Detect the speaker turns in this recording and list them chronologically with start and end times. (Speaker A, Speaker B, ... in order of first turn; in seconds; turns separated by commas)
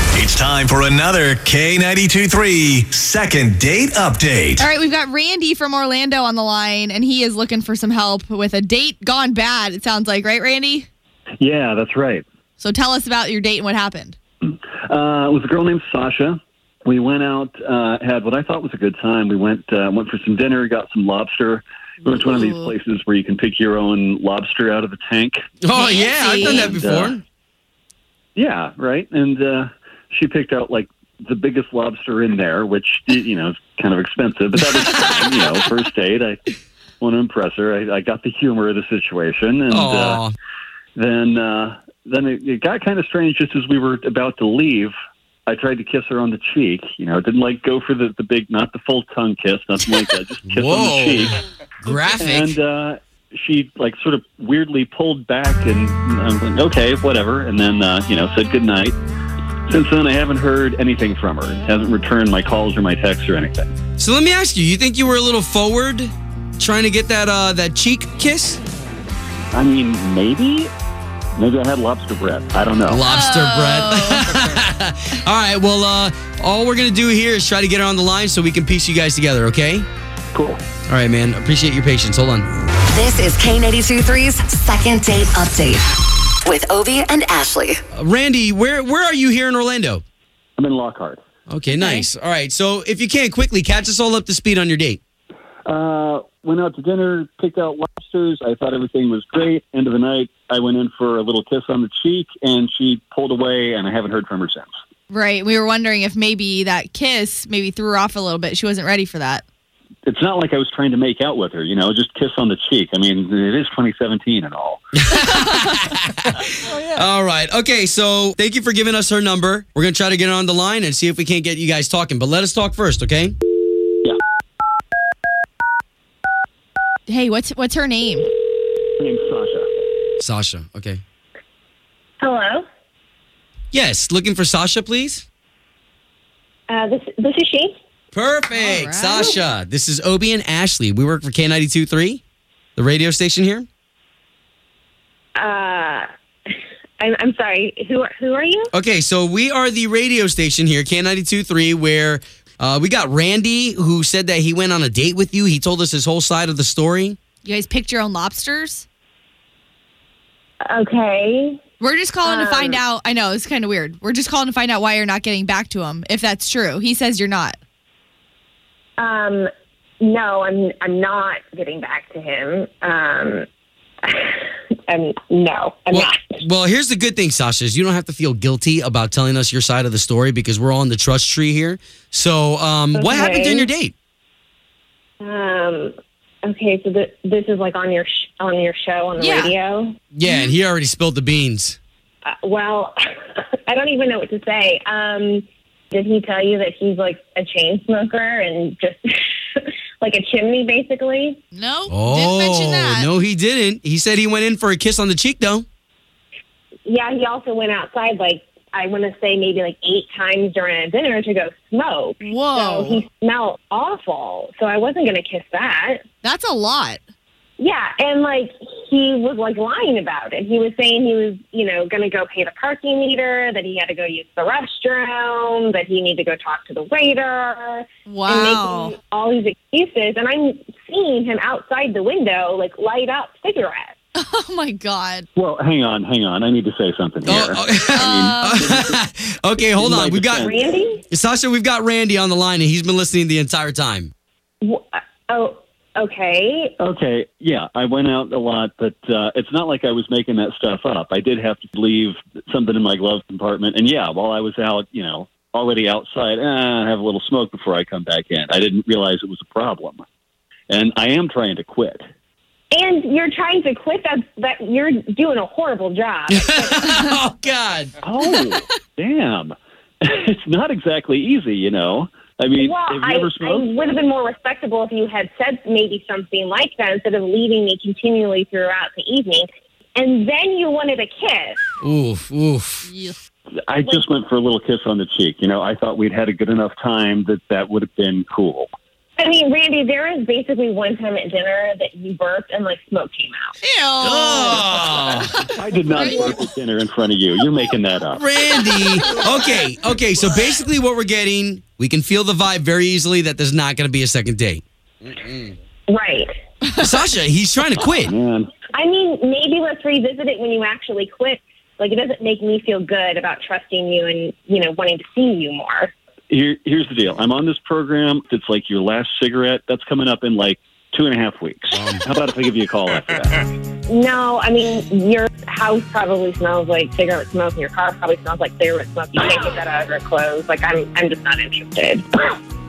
Speaker A: 0.2-4.7, Speaker B: 4.6-10.9, Speaker C: 11.4-12.2, Speaker B: 12.6-14.2, Speaker C: 14.4-25.4, Speaker B: 22.0-22.7, Speaker D: 25.6-27.2, Speaker B: 25.7-26.8, Speaker C: 26.4-27.2, Speaker C: 28.4-40.2, Speaker D: 34.9-35.2, Speaker D: 39.7-40.3, Speaker C: 40.9-44.9, Speaker C: 45.5-51.4, Speaker D: 50.5-52.5, Speaker C: 52.2-59.0, Speaker C: 59.7-63.7, Speaker D: 64.0-68.6, Speaker C: 69.5-70.7, Speaker C: 71.3-73.0, Speaker D: 72.8-79.9, Speaker B: 73.1-74.3, Speaker C: 80.3-80.7, Speaker D: 80.8-82.5, Speaker E: 82.9-85.8, Speaker E: 86.4-87.8, Speaker D: 87.9-90.0, Speaker C: 90.6-91.2, Speaker D: 91.5-95.0, Speaker B: 91.7-92.1, Speaker C: 95.6-104.7, Speaker B: 105.1-109.4, Speaker C: 110.0-114.8, Speaker D: 115.0-123.3, Speaker B: 127.1-128.3, Speaker C: 129.0-129.7, Speaker D: 130.2-131.0, Speaker F: 132.2-132.6, Speaker D: 133.7-135.2, Speaker F: 136.7-137.7, Speaker D: 138.1-142.2, Speaker B: 138.5-139.4, Speaker D: 142.8-143.7, Speaker F: 145.4-146.1, Speaker F: 147.0-148.7, Speaker D: 148.7-157.2, Speaker B: 157.4-158.8, Speaker F: 160.7-161.6, Speaker B: 161.8-167.6, Speaker F: 162.2-162.8, Speaker F: 169.0-169.5, Speaker F: 170.0-173.4, Speaker F: 174.0-176.2, Speaker D: 175.9-183.9, Speaker F: 182.9-183.7, Speaker F: 185.2-185.9, Speaker F: 186.4-189.9, Speaker B: 189.2-189.5, Speaker D: 190.1-191.8, Speaker B: 190.2-190.5, Speaker F: 192.2-193.0, Speaker F: 193.7-199.0, Speaker F: 199.6-201.4, Speaker B: 201.5-203.1, Speaker D: 201.9-205.7, Speaker F: 206.8-216.0, Speaker B: 212.2-213.0, Speaker B: 216.2-217.0, Speaker F: 217.6-233.9, Speaker B: 228.1-228.9, Speaker B: 234.2-235.3, Speaker C: 235.3-239.0, Speaker D: 237.2-240.5, Speaker B: 237.9-238.6, Speaker C: 239.7-240.6, Speaker F: 240.4-241.0, Speaker D: 241.1-244.1, Speaker F: 244.6-246.7, Speaker C: 246.8-260.0, Speaker C: 260.7-262.0, Speaker F: 262.7-266.9, Speaker D: 266.3-268.0, Speaker C: 268.0-273.7, Speaker F: 272.6-281.6, Speaker D: 281.8-282.9, Speaker B: 282.8-283.2, Speaker C: 283.7-288.7, Speaker F: 289.2-293.5, Speaker B: 293.6-296.4, Speaker D: 294.0-295.2, Speaker C: 295.5-298.2, Speaker D: 298.1-305.5, Speaker B: 298.8-299.4, Speaker F: 305.9-306.3, Speaker D: 306.8-308.1, Speaker C: 307.9-308.5, Speaker F: 308.7-315.9, Speaker C: 316.3-323.4, Speaker D: 321.7-322.0, Speaker F: 323.9-332.4